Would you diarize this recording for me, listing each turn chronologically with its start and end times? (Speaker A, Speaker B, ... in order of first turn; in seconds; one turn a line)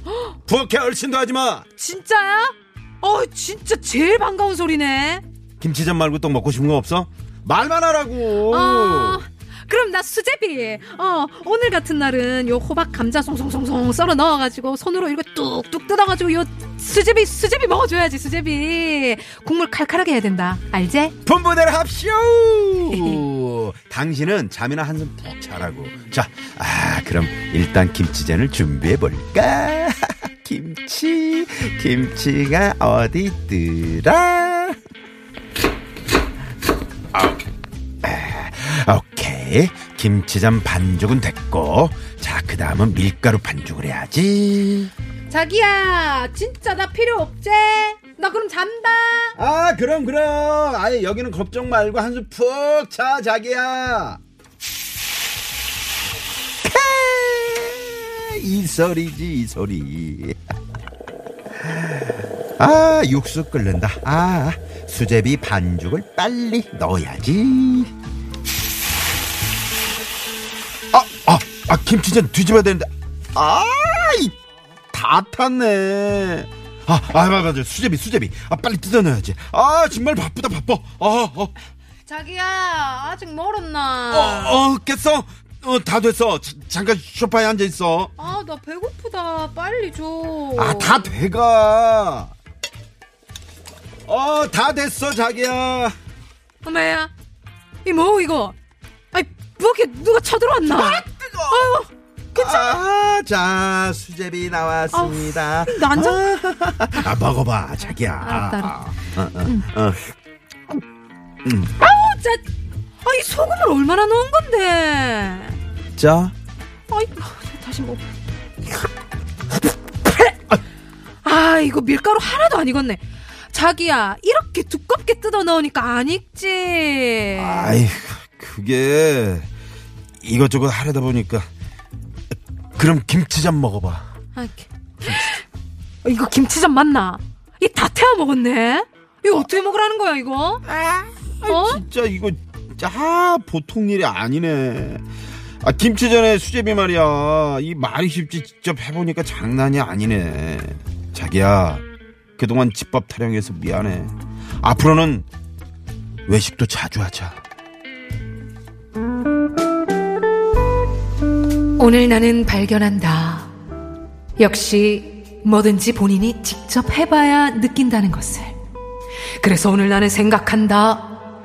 Speaker A: 0.4-1.6
Speaker B: 1.8-5.2
Speaker A: 5.6-9.2
Speaker B: 8.5-21.1
Speaker A: 21.2-34.8
Speaker A: 38.0-44.9
Speaker B: 45.3-49.4
Speaker A: 49.4-54.2
Speaker A: 56.6-60.4
Speaker A: 61.6-67.9
Speaker A: 70.9-74.3
Speaker A: 74.9-81.5
Speaker B: 82.0-84.6
Speaker A: 84.1-88.1
Speaker B: 88.2-91.1
Speaker A: 90.5-92.3
Speaker A: 94.1-95.9
Speaker B: 96.6-97.1
Speaker B: 97.8-98.5
Speaker B: 99.1-102.8
Speaker A: 100.7-101.8
Speaker A: 102.3-110.1
Speaker B: 104.9-106.3
Speaker B: 108.2-108.8
Speaker B: 109.4-109.7
Speaker A: 111.4-111.7
Speaker B: 111.8-112.4
Speaker B: 113.0-115.6
Speaker A: 115.9-116.3
Speaker B: 116.9-118.0
Speaker B: 121.2-127.8
Speaker A: 127.3-129.5
Speaker A: 130.2-131.5
Speaker A: 132.8-134.1
Speaker B: 134.3-135.4
Speaker B: 136.0-140.7
Speaker A: 140.7-145.0
Speaker B: 141.4-141.8
Speaker A: 145.6-151.8
Speaker A: 152.4-155.3
Speaker A: 156.2-157.4
Speaker B: 161.8-163.5
Speaker B: 164.4-168.5
Speaker B: 169.4-171.2